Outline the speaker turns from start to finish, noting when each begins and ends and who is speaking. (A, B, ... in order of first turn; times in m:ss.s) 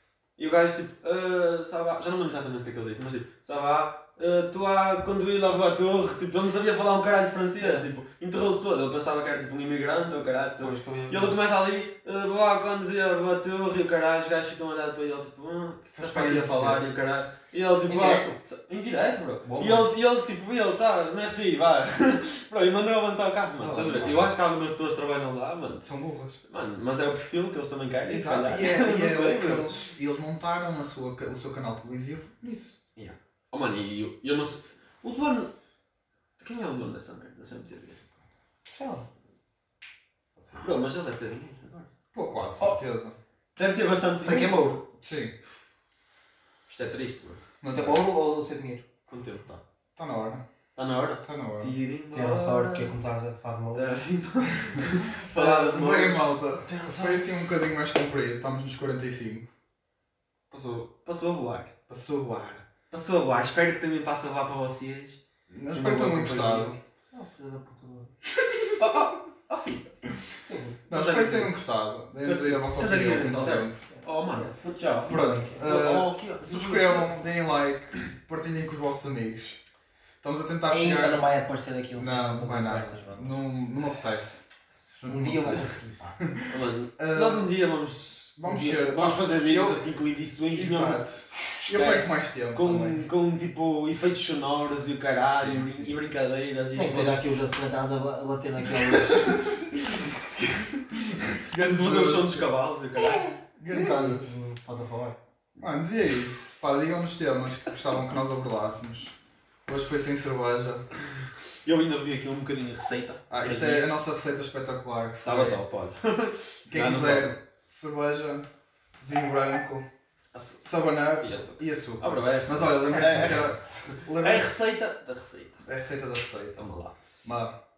0:00.4-0:25.9 A
0:10.6-0:11.4 B
0:15.9-0:16.8 C
0:17.9-0:18.3 B
0:19.5-0:19.8 B
0:19.5-0:19.8 C
0:23.6-0:24.3 C
0:25.8-0:26.4 C
0:26.4-0:29.9 A
0:28.0-0:32.8 C
0:33.0-0:35.5 A
0:36.4-0:38.0 A
0:38.6-0:39.0 B
0:40.4-0:40.7 C
0:40.6-0:41.9 A
0:42.1-0:43.2 C
0:43.6-0:44.7 A
0:44.2-0:44.8 B
0:45.0-0:45.3 C
0:46.7-0:47.4 A
0:47.6-0:48.0 C
0:47.7-0:48.8 B
0:49.1-0:49.6 A
0:50.0-0:50.4 C
0:50.8-0:52.9 A
0:51.2-0:51.7 C
0:52.1-0:54.0 B
0:53.7-0:57.6 A
0:55.2-0:59.5 C
1:00.5-1:01.7 A
1:01.9-1:02.6 C
1:02.9-1:06.7 A
1:05.5-1:06.8 C
1:07.1-1:08.1 B
1:08.8-1:10.0 A
1:10.5-1:10.8 B
1:10.9-1:13.8 C
1:10.9-1:11.6 A
1:12.2-1:17.1 A
1:13.9-1:14.5 B
1:15.0-1:15.5 B
1:15.1-1:19.6 C
1:20.2-1:21.2 C
1:20.7-1:23.4 B
1:22.0-1:27.5 C
1:25.0-1:26.2 B
1:26.5-1:31.0 A
1:28.4-1:29.9 C
1:30.5-1:33.0 C
1:31.5-1:37.2 A
1:35.2-1:35.9 C
1:36.8-1:39.6 B
1:39.9-1:40.8 A
1:41.3-1:42.5 C
1:41.4-1:43.3 A
1:43.6-1:44.4 C
1:43.7-1:45.2 B
1:45.6-1:49.2 C
1:49.7-1:50.8 C
1:51.6-1:53.9 A
1:53.3-1:55.6 C
1:55.2-1:57.3 A
1:56.7-1:58.5 C
1:59.0-1:59.9 C
2:00.3-2:05.6 A
2:00.6-2:04.5 C
2:02.9-2:03.5 B
2:05.6-2:06.6 C
2:06.6-2:06.9 A
2:07.2-2:07.5 C